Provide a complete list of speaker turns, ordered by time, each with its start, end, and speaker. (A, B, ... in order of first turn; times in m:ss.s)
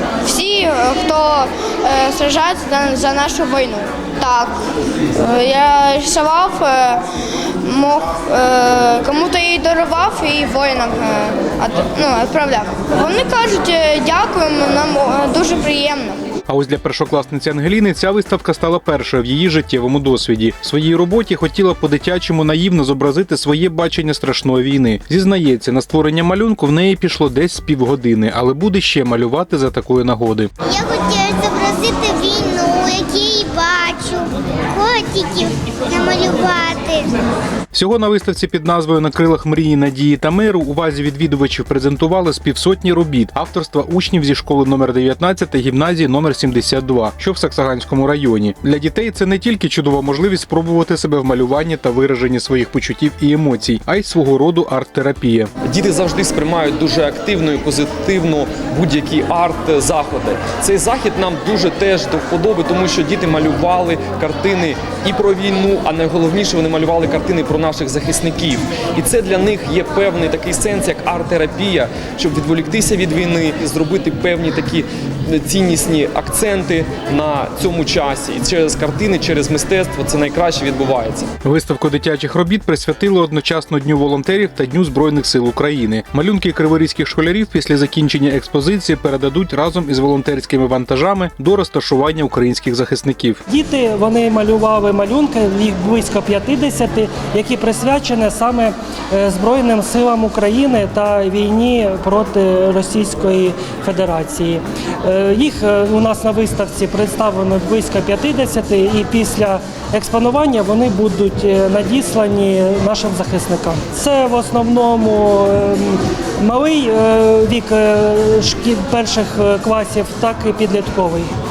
0:00.2-0:04.5 A
0:05.2-0:07.0 A
0:07.6-0:16.2 A
0:16.5-0:30.5 B
0:30.6-0:37.2 C
0:37.7-0:55.5 B
0:55.7-1:21.3 D
1:21.4-1:33.4 B
1:33.5-2:01.3 E